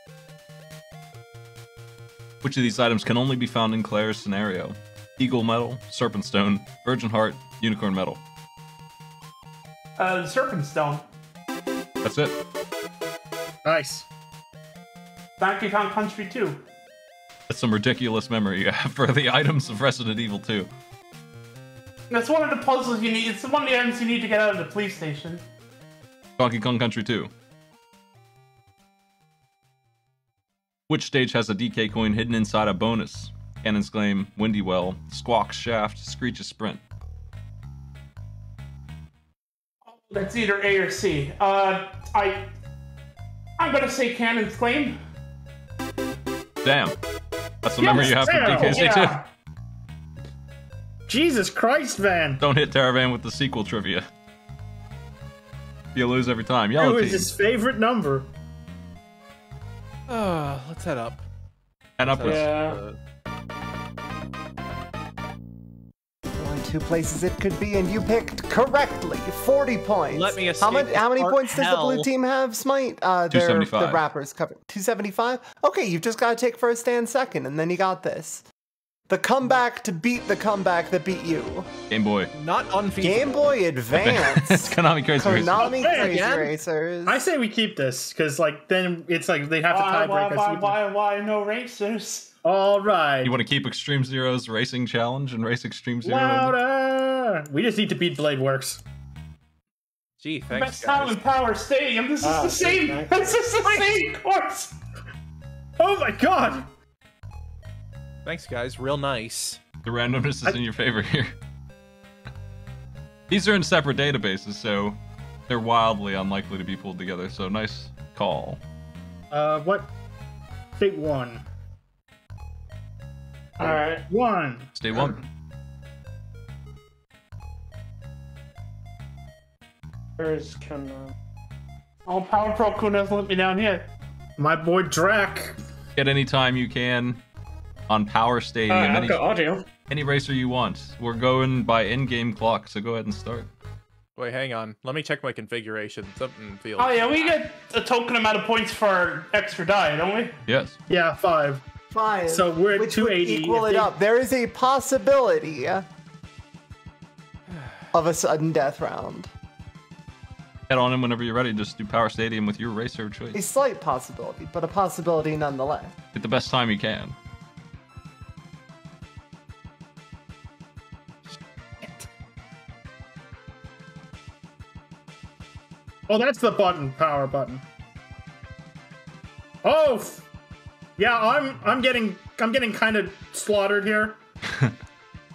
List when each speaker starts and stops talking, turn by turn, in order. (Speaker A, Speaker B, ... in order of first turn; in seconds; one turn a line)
Speaker A: 2.4-8.2
Speaker B: 10.0-11.1
Speaker A: 12.0-12.3
Speaker C: 13.7-14.1
Speaker B: 15.4-16.6
Speaker A: 17.5-20.7
Speaker B: 22.1-25.4
Speaker A: 26.4-27.3
Speaker A: 30.9-36.8
Speaker B: 39.9-42.5
Speaker B: 43.6-45.0
Speaker A: 46.6-47.0
Speaker A: 47.6-49.2
Speaker C: 47.8-49.0
Speaker B: 47.8-49.2
Speaker C: 51.1-52.4
Speaker A: 52.4-54.0
Speaker A: 56.0-57.3
Speaker C: 56.8-58.3
Speaker D: 60.1-61.3
Speaker A: 62.0-62.5
Speaker D: 62.1-63.0
Speaker E: 62.2-62.8
Speaker F: 66.4-78.5
Speaker D: 70.1-72.1
Speaker A: 73.3-74.0
Speaker F: 79.1-81.7
Speaker A: 81.9-82.3
Speaker D: 82.3-83.5
Speaker F: 83.0-87.2
Speaker A: 84.0-85.7
Speaker C: 85.6-86.2
Speaker D: 85.9-86.5
Speaker C: 87.1-90.8
Speaker B: 89.7-92.3
Speaker C: 92.4-93.3
Speaker A: 93.2-96.6
Speaker C: 96.0-98.8
Speaker D: 100.2-101.2
Speaker B: 100.5-104.8
Speaker E: 102.2-103.3
Speaker C: 105.8-106.7
Speaker D: 108.2-109.6
Speaker A: 109.8-111.3
Speaker A: 113.3-118.6
Speaker C: 119.3-119.9
Speaker C: 120.8-121.5
Speaker E: 123.6-124.0
Speaker C: 123.6-125.2
Speaker A: 124.8-125.2
Speaker E: 130.2-131.1
Speaker B: 132.1-133.9
Speaker C: 134.4-135.6
Speaker A: 136.0-137.2
Speaker A: 137.9-139.2
Speaker E: 138.7-139.7
Speaker A: 139.9-143.5
Speaker D: 144.2-147.4
Speaker B: 146.8-150.3
Speaker A: 150.5-150.8
Speaker C: 150.9-151.6
Speaker F: 151.9-155.9
Speaker C: 152.3-153.9
Speaker D: 157.5-157.8
Speaker F: 157.9-159.3
Speaker A: 160.7-163.4
Speaker F: 163.3-166.0
Speaker A: 166.2-167.2
Speaker C: 176.1-177.6
Speaker C: 179.6-180.3
Speaker C: 181.0-184.2
Speaker A: 184.5-184.7